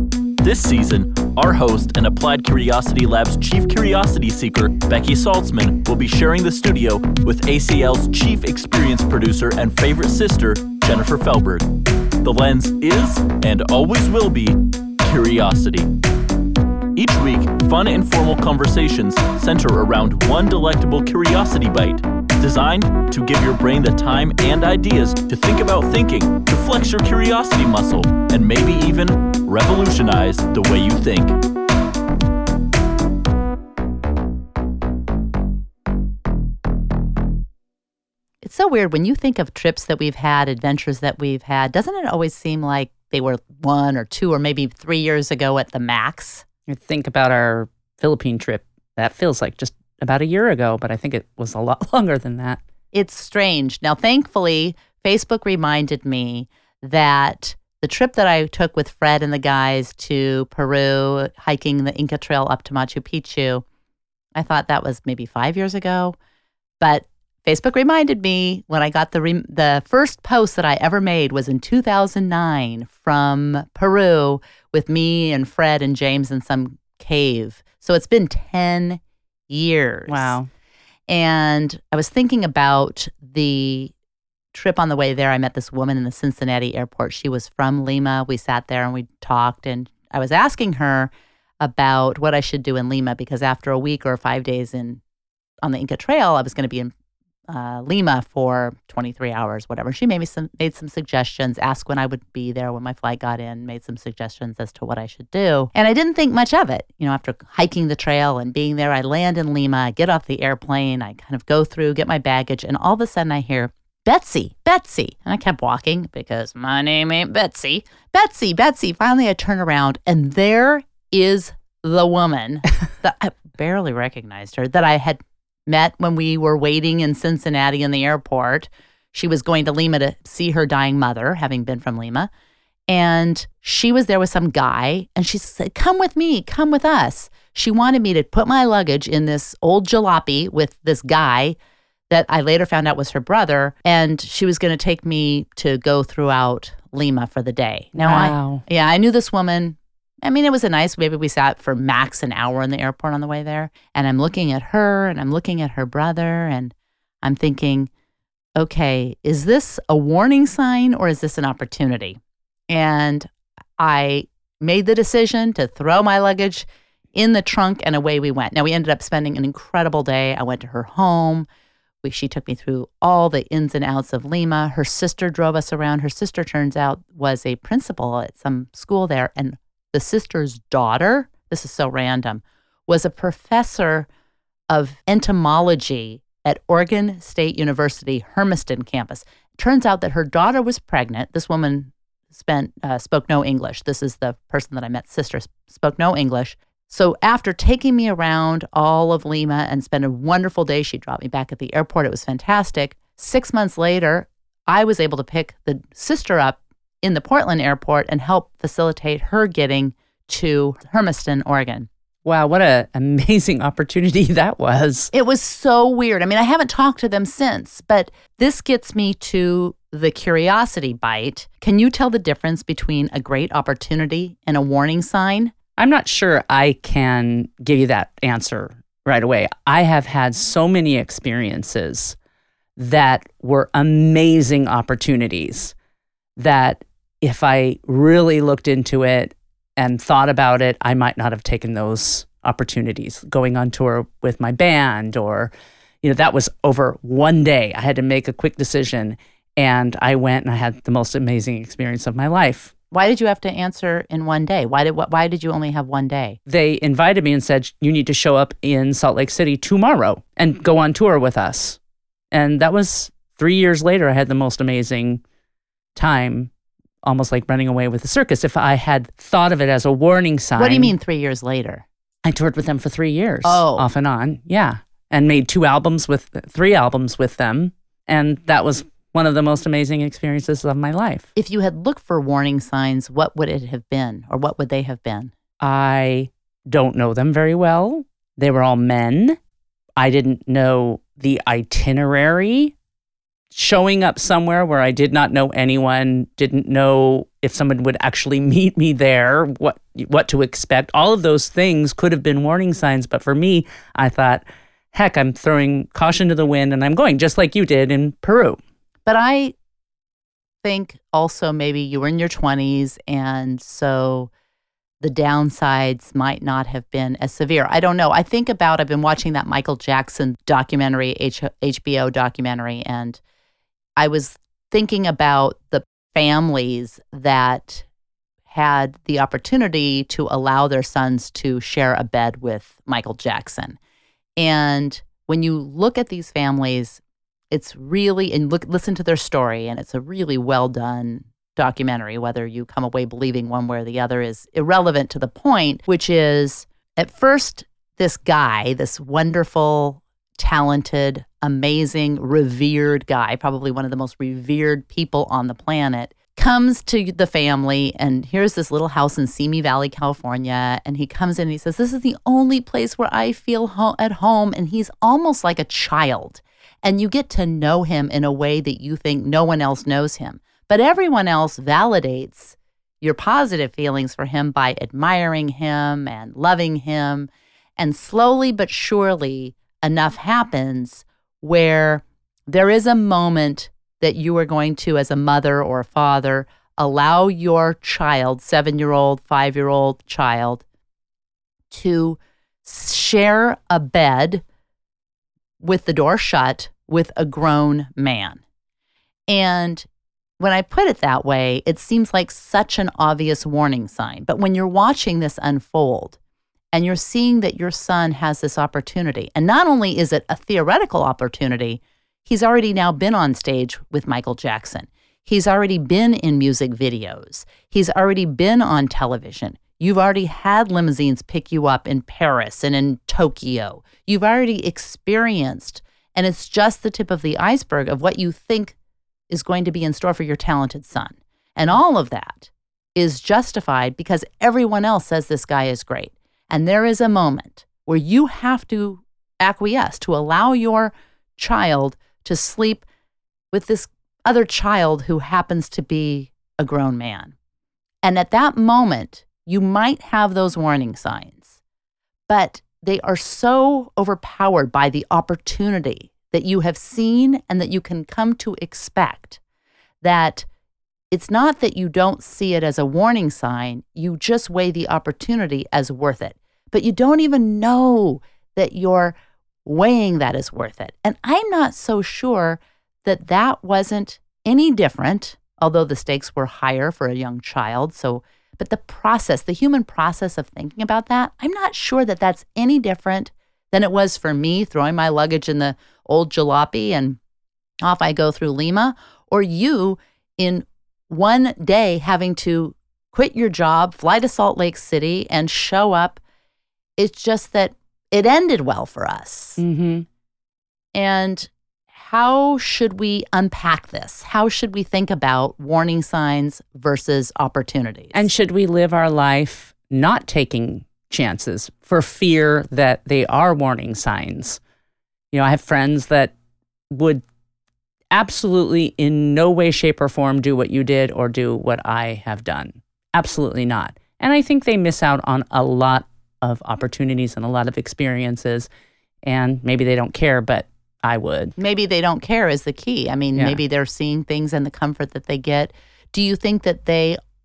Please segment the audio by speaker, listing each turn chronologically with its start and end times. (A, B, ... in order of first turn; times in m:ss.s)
0:00.4-0:15.9 A
0:16.9-0:31.4 A
0:38.4-0:46.4 B
0:46.7-0:52.6 C
0:52.9-1:03.6 B
1:04.4-1:06.2 B
1:06.8-1:20.4 B
1:20.1-1:20.5 C
1:21.1-1:23.9 B
1:24.5-1:35.0 B
1:35.6-1:36.9 B
1:37.5-2:12.3 B
2:12.9-2:21.6 B
2:22.1-2:37.9 B
2:28.0-2:28.6 C
2:38.6-2:42.2 B
2:42.7-2:51.4 B
2:52.0-3:04.1 B
3:04.7-3:31.9 B
3:32.2-3:35.1 C
3:35.1-3:45.5 B
3:45.8-3:52.2 C
3:52.8-3:55.7 C
3:56.4-4:05.5 C
4:06.0-4:12.7 C
4:12.9-4:16.4 B
4:16.5-4:21.8 C
4:22.3-4:25.2 C
4:25.9-4:26.5 C
4:27.0-4:30.9 C
4:30.6-4:31.8 B
4:32.2-4:41.3 C
4:33.4-4:33.9 B
4:41.4-4:45.3 B
4:45.6-4:49.4 C
4:50.0-4:52.7 C
4:53.5-5:08.6 C
5:09.0-5:09.5 B
5:10.6-5:14.3 B
5:15.0-5:23.2 B
5:24.0-5:27.8 B
5:28.5-5:33.8 B
5:34.4-6:30.6 B
6:31.7-6:34.4 B
6:35.6-6:38.4 B
6:39.3-6:39.9 B
6:40.4-6:46.2 B
6:46.7-7:08.7 B
7:09.3-7:22.8 B
7:23.5-7:27.3 B
7:28.0-7:31.6 B
7:32.3-7:39.4 B
7:40.0-7:40.5 B
7:41.1-8:07.2 B
8:07.8-8:16.2 B
8:17.0-8:19.6 B
8:19.6-8:20.0 C
8:20.9-8:28.3 B
8:28.1-8:34.6 C
8:35.3-8:36.3 C
8:36.9-8:37.2 C
8:38.1-8:48.7 C
8:49.2-8:51.6 C
8:51.6-8:57.2 B
8:53.3-8:53.6 C